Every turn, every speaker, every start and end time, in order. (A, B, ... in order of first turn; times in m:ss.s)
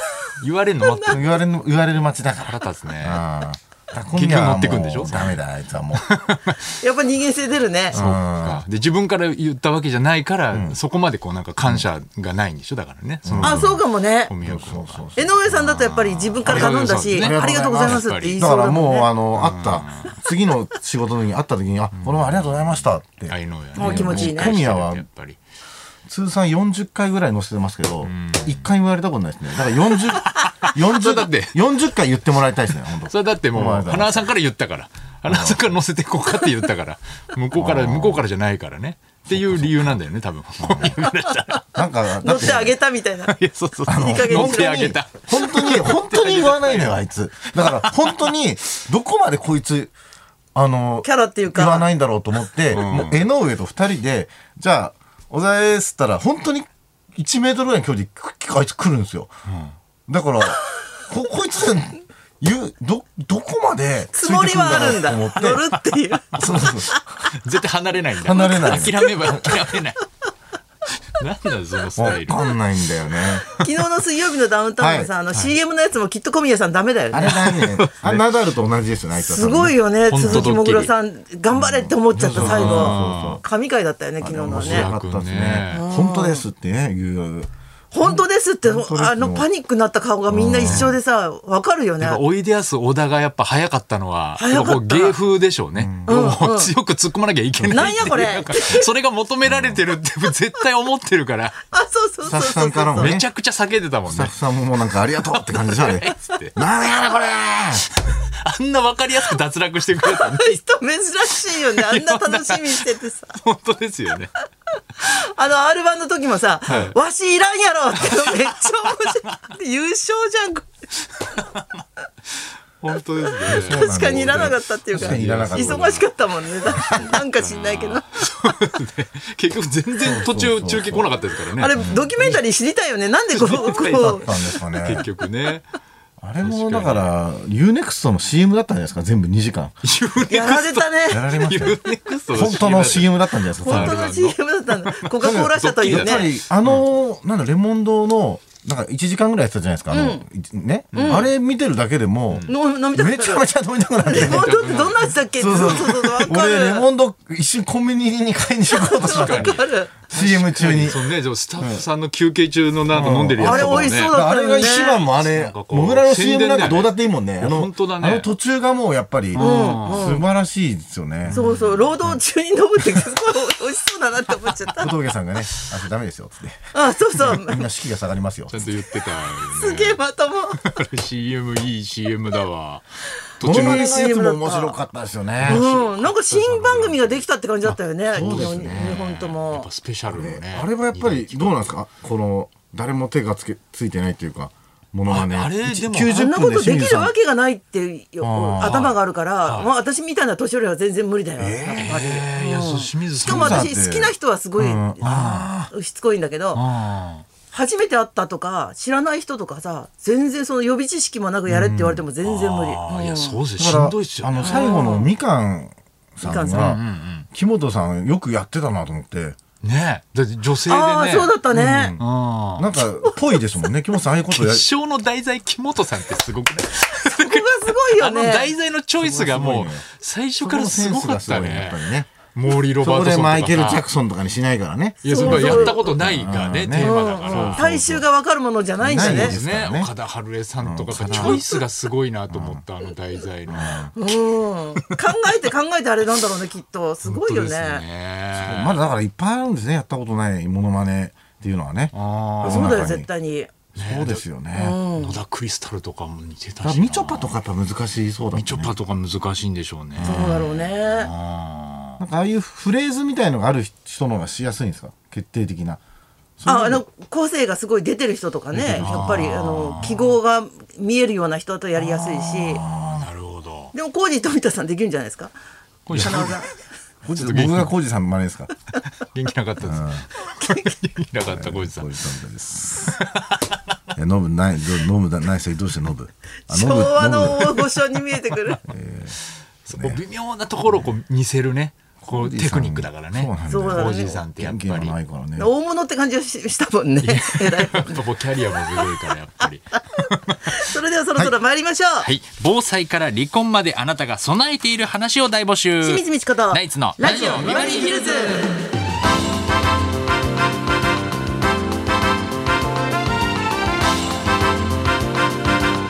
0:00.4-0:01.4 A
0:00.8-0:01.2 B
0:01.1-0:06.1 C
0:02.5-0:03.2 A
0:04.1-0:05.4 A
0:06.0-0:06.7 A
0:06.8-0:08.0 B
0:07.9-0:08.6 C
0:07.9-0:18.4 A
0:10.5-0:10.8 C
0:13.2-0:13.8 C
0:13.4-0:14.3 B
0:14.4-0:15.3 C
0:15.2-0:19.1 B
0:16.4-0:25.1 C
0:19.4-0:20.2 A
0:21.9-0:25.4 A
0:23.8-0:24.6 B
0:26.1-0:34.2 C
0:28.0-0:28.7 A
0:29.8-0:31.6 A
0:33.1-0:41.7 A
0:35.2-0:35.6 C
0:37.5-0:38.2 C
0:39.3-0:40.0 C
0:40.6-0:41.0 C
0:41.7-0:42.8 C
0:42.2-0:43.3 B
0:43.2-0:48.3 A
0:43.8-0:49.9 C
0:44.0-0:45.0 B
0:50.5-0:59.3 C
0:51.0-0:51.9 B
0:52.7-0:53.2 A
0:59.5-0:59.7 A
1:00.1-1:05.6 C
1:04.1-1:07.0 B
1:04.8-1:05.1 A
1:06.3-1:07.1 C
1:07.3-1:10.0 A
1:08.2-1:09.8 C
1:08.3-1:09.6 B
1:11.1-1:12.4 A
1:12.0-1:13.6 C
1:13.4-1:17.4 B
1:14.8-1:15.1 C
1:17.1-1:20.5 C
1:17.3-1:18.2 A
1:19.2-1:24.9 B
1:20.1-1:20.9 A
1:21.5-1:23.4 C
1:22.1-1:23.4 A
1:24.2-1:27.5 C
1:24.4-1:25.9 A
1:25.7-1:26.4 B
1:27.9-1:32.2 B
1:28.0-1:29.5 C
1:30.3-1:31.0 C
1:30.6-1:30.9 A
1:32.0-1:41.6 A
1:34.4-1:35.2 B
1:35.8-1:36.3 C
1:36.1-1:36.7 B
1:37.5-1:38.2 C
1:37.7-1:38.8 B
1:39.4-1:39.8 C
1:41.7-1:43.2 B
1:42.3-1:43.2 C
1:43.0-1:44.3 A
1:44.1-1:47.8 C
1:45.3-1:46.6 A
1:48.0-1:50.6 A
1:50.0-1:53.4 B
1:51.3-1:54.3 A
1:55.0-2:00.7 B
1:56.7-1:56.9 A
1:58.0-1:58.5 A
2:01.4-2:01.6 A
2:02.8-2:06.1 A
2:03.4-2:08.1 B
2:03.5-2:06.0 C
2:06.6-2:12.4 A
2:06.7-2:07.0 C
2:10.0-2:11.1 C
2:11.6-2:14.3 B
2:11.8-2:12.1 C
2:13.3-2:15.7 A
2:13.8-2:15.1 C
2:16.2-2:19.8 C
2:16.4-2:17.1 A
2:19.8-2:26.8 A
2:20.3-2:21.3 B
2:21.1-2:24.0 C
2:23.6-2:26.3 B
2:25.2-2:34.6 C
2:29.9-2:30.2 B
2:30.9-2:31.2 A
2:30.9-2:31.3 B
2:32.5-2:33.5 B
2:34.0-2:36.9 B
2:34.1-2:35.1 A
2:35.4-2:41.8 C
2:38.7-2:39.9 B
2:38.9-2:44.2 A
2:42.9-2:51.4 C
2:43.4-2:45.0 B
2:44.7-2:48.3 A
2:49.4-2:50.1 A
2:49.4-2:50.3 B
2:51.2-2:52.0 A
2:51.3-2:54.9 B
2:54.8-2:58.6 C
2:56.7-2:57.6 B
2:58.5-3:00.0 A
2:59.3-3:00.7 B
3:00.5-3:02.8 A
3:03.4-3:04.0 A
3:03.4-3:04.8 B
3:03.4-3:05.6 C
3:05.4-3:11.7 A
3:05.4-3:09.7 B
3:08.1-3:08.9 C
3:10.1-3:17.1 C
3:15.0-3:16.2 A
3:16.1-3:25.0 B
3:18.2-3:18.8 C
3:18.6-3:19.7 A
3:21.4-3:22.0 C
3:21.7-3:23.7 A
3:23.2-3:25.7 C
3:25.0-3:25.5 A
3:25.7-3:26.6 B
3:26.5-3:27.2 A
3:27.5-3:33.4 B
3:31.5-3:32.0 C
3:32.2-3:34.8 A
3:33.6-3:39.4 C
3:34.4-3:35.1 B
3:36.2-3:36.7 B
3:36.5-3:37.3 A
3:39.6-3:41.4 A
3:40.6-3:42.0 B
3:41.5-3:42.0 C
3:42.0-3:42.8 A
3:42.6-3:44.7 C
3:43.0-3:43.4 B
3:44.3-3:53.9 A
3:47.1-3:48.5 B
3:49.0-3:49.9 C
3:50.4-3:52.1 C
3:52.8-3:58.0 C
3:55.0-3:55.9 B
3:55.0-3:57.7 A
3:56.8-3:59.4 B
3:58.8-3:59.9 C
3:58.8-4:03.9 A
4:00.6-4:01.5 C
4:01.1-4:01.4 B
4:02.3-4:02.6 C
4:03.5-4:03.9 C
4:03.9-4:07.8 B
4:07.0-4:08.8 A
4:08.3-4:13.1 C
4:11.9-4:12.9 A
4:12.4-4:13.5 B
4:13.8-4:14.8 C
4:13.8-4:14.2 A
4:14.5-4:15.2 B
4:15.0-4:17.4 A
4:16.6-4:18.8 C
4:18.3-4:22.0 A
4:19.9-4:20.5 C
4:20.0-4:21.1 B
4:22.0-4:25.8 C
4:26.4-4:26.8 C
4:26.5-4:32.6 B
4:28.5-4:29.2 C
4:28.7-4:30.1 A
4:31.8-4:33.7 A
4:33.7-4:35.3 B
4:35.9-4:36.5 A
4:35.9-4:36.4 C
4:35.9-4:36.5 B
4:37.0-4:38.5 C
4:37.1-4:37.7 A
4:39.0-4:42.0 A
4:39.6-4:40.0 C
4:40.4-4:40.7 B
4:41.2-4:42.9 C
4:42.8-4:43.4 A
4:43.9-4:47.8 C
4:46.5-4:48.6 B
4:48.6-4:49.2 C
4:49.6-4:54.9 A
4:49.7-4:50.0 C
4:52.0-4:55.5 C
4:53.5-4:54.2 B
4:55.4-4:58.0 B
4:57.0-5:00.7 A
4:58.8-4:59.5 B
5:00.5-5:02.1 B
5:02.0-5:08.4 A
5:05.8-5:08.5 B